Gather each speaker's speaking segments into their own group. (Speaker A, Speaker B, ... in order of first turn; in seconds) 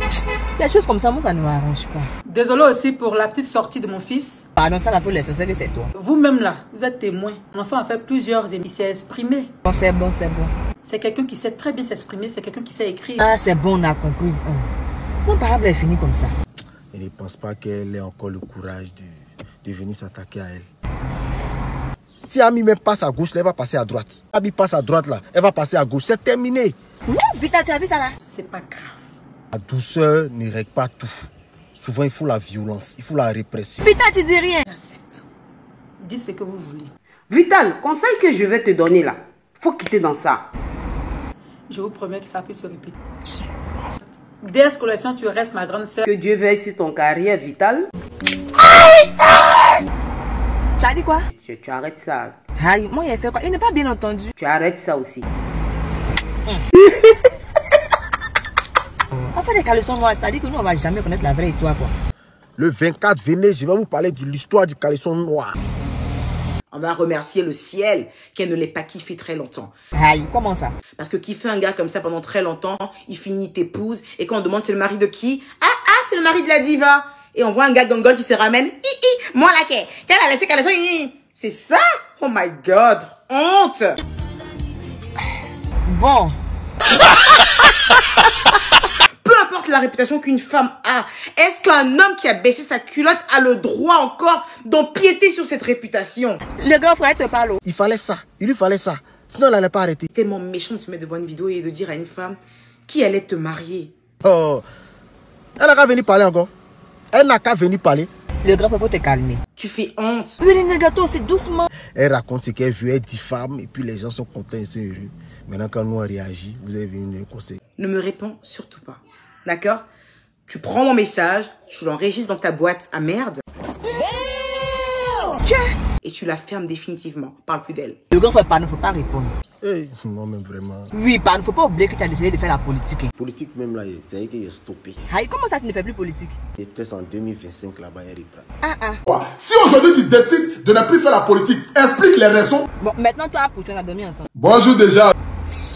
Speaker A: 0.6-2.1, 4.6-5.9, 9.7-10.5, 13.2-14.7, 15.2-16.3, 27.1-28.1, 33.8-34.6, 50.8-51.3, 52.6-54.3, 59.3-61.9, 70.0-70.8, 85.8-86.4, 96.5-97.6, 108.4-109.4, 110.4-111.7, 128.1-129.3, 130.9-133.1, 135.1-136.3, 138.6-139.0, 142.8-144.3
Speaker B: 2.2-4.5, 5.9-9.5, 10.8-13.3, 28.2-29.1, 34.6-35.2, 36.0-36.9, 41.7-43.0, 44.4-46.0
Speaker C: 16.9-20.6, 22.2-26.8, 29.5-33.9, 62.6-65.5, 97.6-100.1, 104.2-104.6, 105.6-106.5, 107.1-108.1, 111.9-117.6, 129.6-130.9, 133.1-135.0, 136.6-138.5
Speaker D: 37.3-40.4, 46.0-47.9, 51.4-52.4, 54.4-55.2
Speaker E: 66.7-69.7, 71.0-84.0, 89.2-96.4, 100.1-103.9, 109.6-110.4, 117.8-119.8, 120.5-123.4, 126.0-128.0
Speaker F: 139.1-142.7, 144.3-145.1